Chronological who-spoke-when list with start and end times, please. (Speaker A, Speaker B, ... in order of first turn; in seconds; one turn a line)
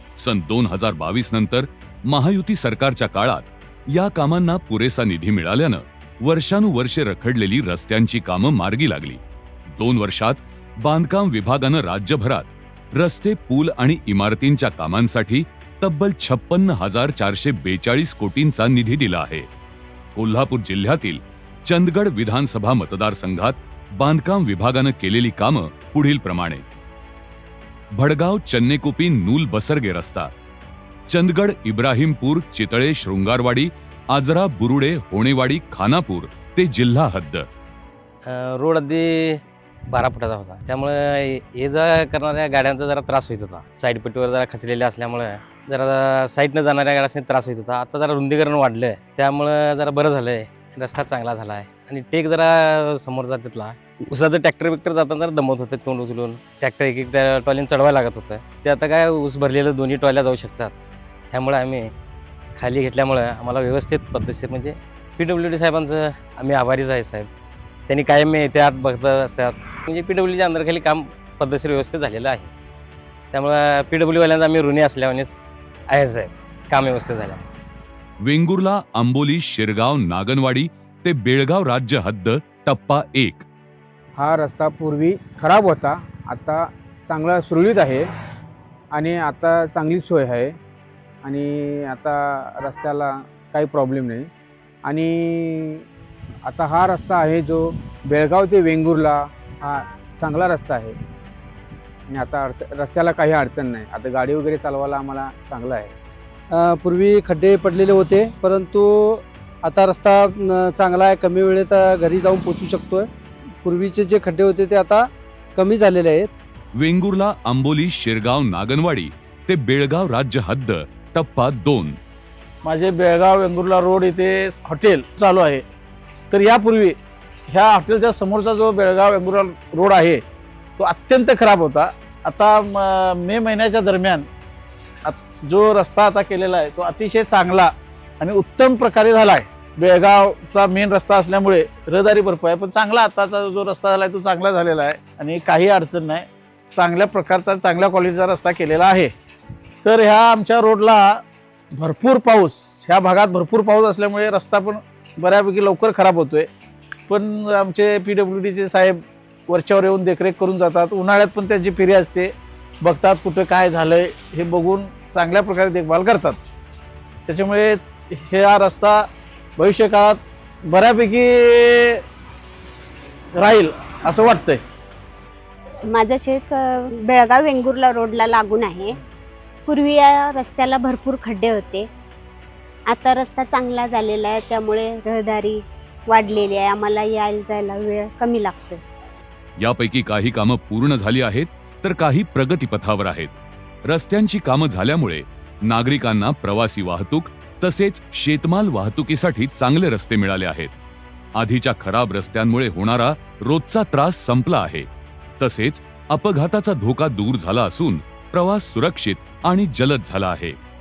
Speaker A: 0.2-9.2
Speaker A: 9.7-19.5
Speaker A: 20.1-26.6
Speaker A: 27.9-30.3
Speaker A: 31.1-37.5
Speaker B: 38.2-60.8
Speaker B: 61.3-61.9
Speaker B: 62.5-67.3
Speaker B: 67.9-72.5
Speaker B: 73.3-77.4
Speaker A: 78.2-83.5
Speaker C: 84.2-88.1
Speaker C: 88.9-90.5
Speaker C: 91.2-94.3
Speaker C: 94.8-95.8
Speaker C: 96.5-101.0
Speaker C: 102.1-105.9
Speaker D: 106.5-113.1
Speaker D: 113.6-116.3
Speaker A: 116.7-122.0
Speaker E: 122.6-125.6
Speaker E: 126.3-127.0
Speaker E: 127.5-130.2
Speaker E: 130.8-134.3
Speaker E: 135.0-149.1
Speaker E: 149.8-151.2
Speaker E: 151.7-156.5
Speaker E: 157.1-166.4
Speaker E: 167.3-169.1
Speaker E: 169.6-172.0
Speaker E: 173.4-174.6
Speaker F: 175.9-178.9
Speaker F: 179.7-181.9
Speaker F: 182.9-188.8
Speaker A: 189.6-193.3
Speaker A: 193.8-200.7
Speaker A: 201.3-204.9
Speaker A: 205.4-210.6